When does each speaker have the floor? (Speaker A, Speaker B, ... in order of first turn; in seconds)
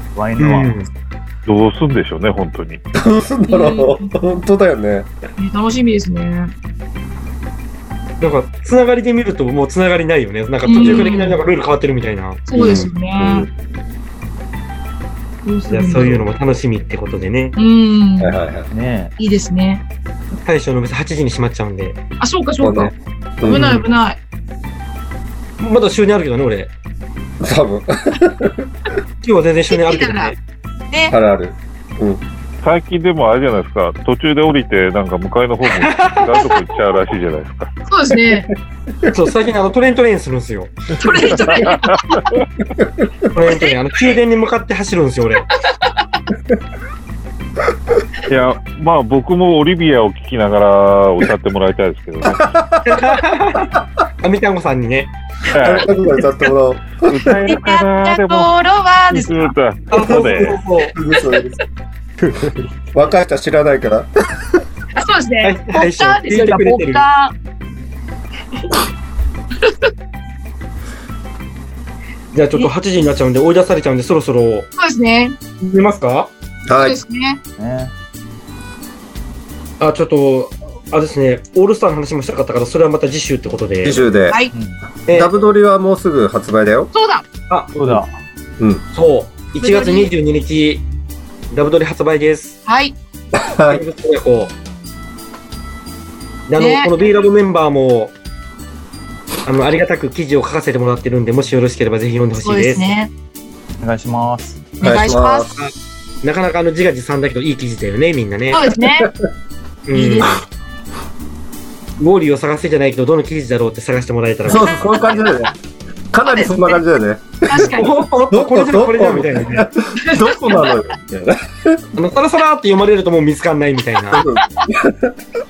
Speaker A: 0.1-0.9, 18.7-19.1, 77.6-77.9, 84.5-84.8, 87.8-88.2, 103.8-104.6
Speaker B: 0.4-0.9, 8.2-12.5, 15.7-17.6, 20.4-22.0, 23.5-23.9, 25.6-26.7, 29.2-30.4, 35.6-36.6, 39.1-41.5, 43.3-45.5, 52.9-55.1, 59.9-60.9, 65.4-67.0, 72.3-74.7, 75.6-76.3, 79.8-84.1, 87.5-88.0, 88.9-90.8, 91.5-92.6, 93.7-94.5, 96.5-98.2, 99.5-102.9, 105.5-108.8, 109.9-110.4, 112.0-115.2, 117.6-119.7, 122.0-124.2
Speaker C: 1.5-2.8, 32.6-37.7, 41.4-42.5, 48.3-52.5, 55.5-55.9, 57.0-58.5, 59.1-60.6
Speaker D: 2.9-5.1, 10.8-11.2, 12.5-13.5, 18.2-18.7, 22.6-23.8, 27.4-28.7, 31.1-32.2, 52.2-53.2, 55.6-57.4, 60.9-61.6, 62.9-64.6, 76.7-77.0, 83.8-84.4, 85.1-86.9, 93.3-93.8, 104.8-105.6, 109.0-109.3, 114.5-115.5, 116.1-117.7, 118.3-121.8, 124.1-125.1
Speaker E: 3.5-4.3, 5.4-6.5, 10.7-11.4, 12.5-13.5, 15.4-16.2, 17.6-18.4, 19.2-19.8, 22.2-22.9, 23.4-24.2, 29.7-30.3, 37.9-38.5, 41.0-42.4, 57.5-60.1, 65.0-67.3, 69.6-69.9, 74.8-75.4, 76.8-77.4, 86.9-87.2, 89.6-90.1, 92.7-93.0, 96.6-96.9, 102.3-103.1, 104.8-105.5, 108.5-109.1, 109.9-110.4, 116.3-116.8, 117.5-117.9, 120.0-120.7, 124.1-124.7